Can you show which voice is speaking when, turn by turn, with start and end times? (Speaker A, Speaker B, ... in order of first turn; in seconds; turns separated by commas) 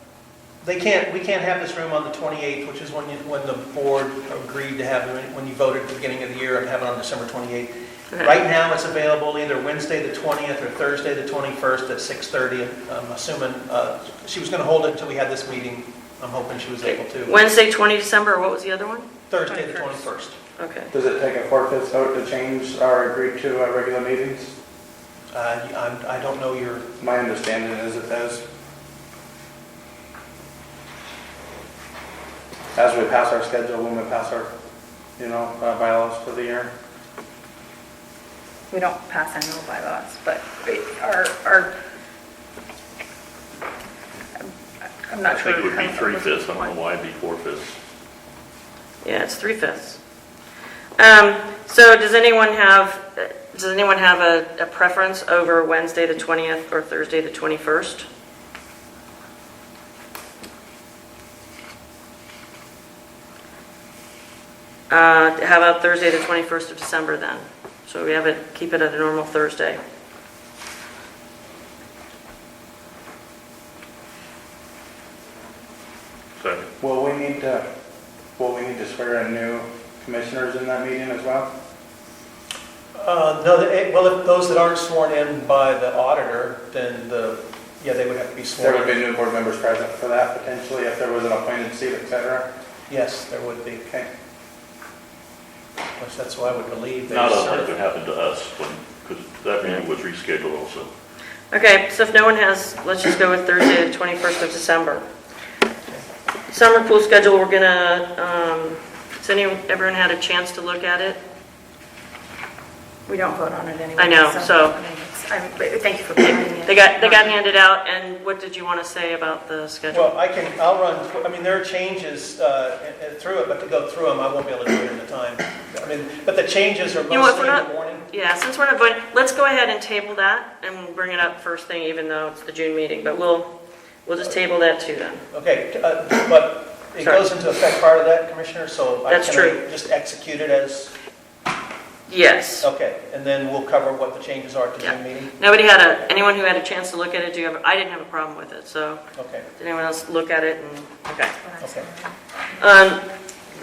Speaker A: 0.6-17.3, Speaker B: 8.1-8.4, Speaker B: 16.8-19.1, Speaker A: 19.3-20.4, Speaker C: 19.5-20.1, Speaker B: 20.6-20.9, Speaker D: 20.9-24.5, Speaker A: 25.3-26.9, Speaker D: 27.0-28.4, Speaker D: 32.8-34.5, Speaker D: 35.2-36.7, Speaker C: 38.7-41.7, Speaker C: 45.1-46.7, Speaker E: 45.2-47.8, Speaker B: 49.0-50.0, Speaker B: 51.0-58.1, Speaker B: 64.9-69.8, Speaker E: 76.4-76.7, Speaker D: 76.8-77.7, Speaker D: 78.4-81.5, Speaker A: 83.0-89.0, Speaker D: 88.6-92.5, Speaker A: 92.9-93.9, Speaker A: 96.0-97.8, Speaker E: 97.1-100.9, Speaker B: 101.5-105.0, Speaker B: 106.5-111.2, Speaker C: 113.1-117.4, Speaker B: 114.0-114.8, Speaker B: 116.2-120.2, Speaker A: 119.9-128.1, Speaker B: 127.1-133.5, Speaker B: 134.1-135.2, Speaker A: 135.3-140.9, Speaker B: 139.1-139.6, Speaker B: 142.1-142.7, Speaker A: 142.6-145.3, Speaker B: 144.8-149.0, Speaker A: 149.2-149.5, Speaker B: 149.6-151.4, Speaker C: 151.4-152.2, Speaker A: 151.6-151.9, Speaker B: 152.6-153.1